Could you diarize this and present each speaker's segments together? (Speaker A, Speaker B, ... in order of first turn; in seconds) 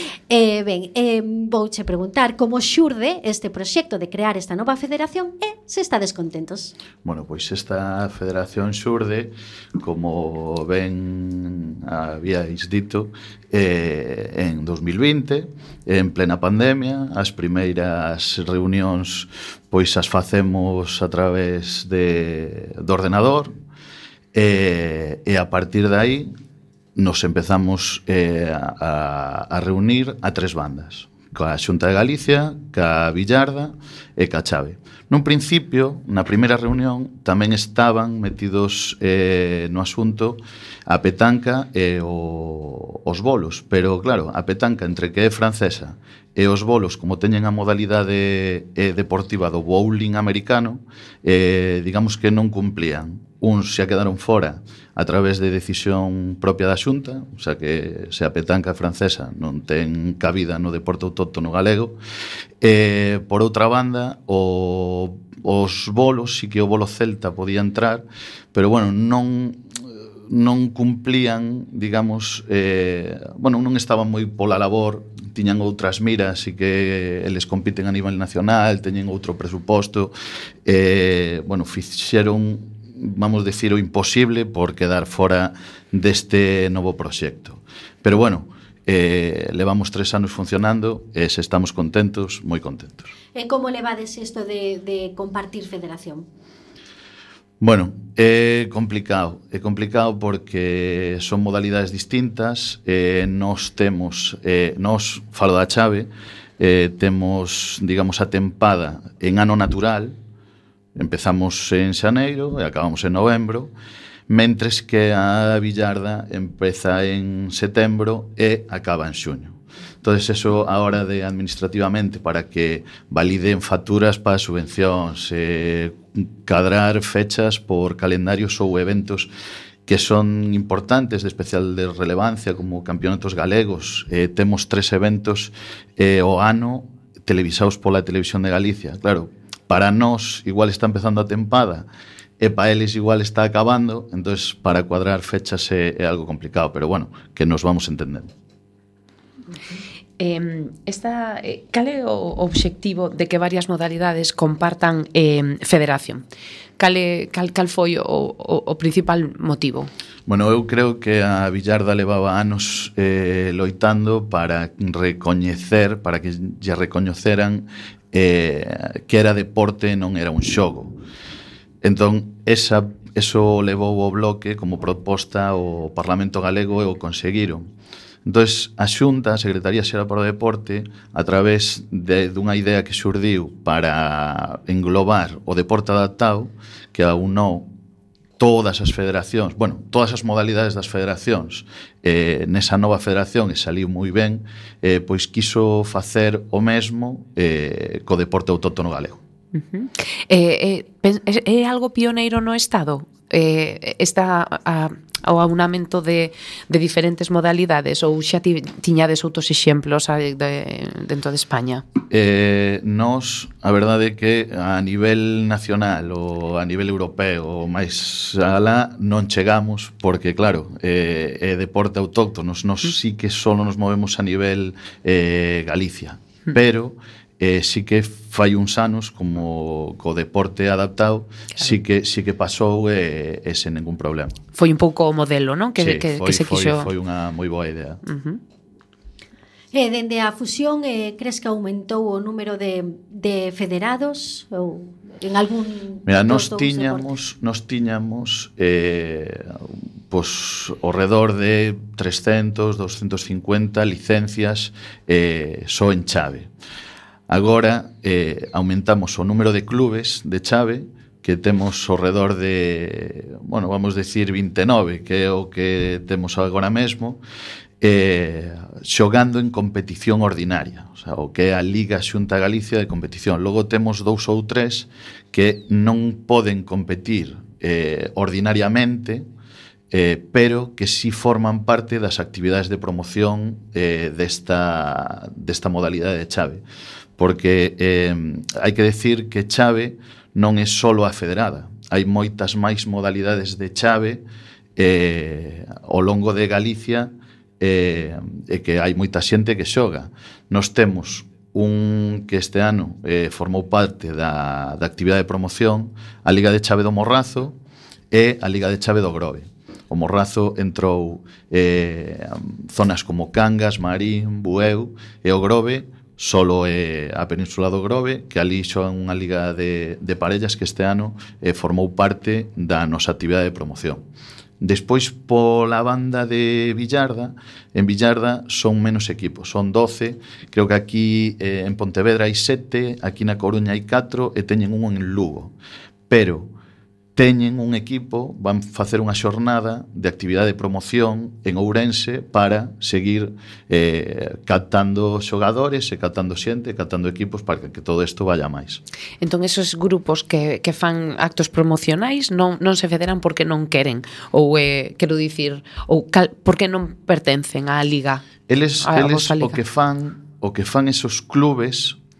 Speaker A: 0.3-6.7, 93.3-96.3, 239.7-247.1
Speaker B: 7.0-23.5, 24.3-26.3, 26.9-62.0, 62.6-80.1, 80.6-93.1, 97.6-110.2, 111.0-113.7, 114.3-129.3, 129.8-141.9, 142.4-148.3, 160.3-171.0, 171.8-177.7, 178.2-187.7, 188.4-199.2, 212.1-234.4, 235.8-238.0, 246.1-249.6, 250.1-256.5, 257.3-267.2, 267.8-279.3, 279.9-286.6, 287.2-294.2, 294.8-307.6, 308.1-324.0, 324.6-335.5, 336.1-336.5, 337.1-348.8, 358.5-362.0
Speaker C: 150.2-156.2, 156.8-159.9, 199.6-211.8, 234.5-236.9, 238.1-238.4, 349.2-358.2, 358.8-359.6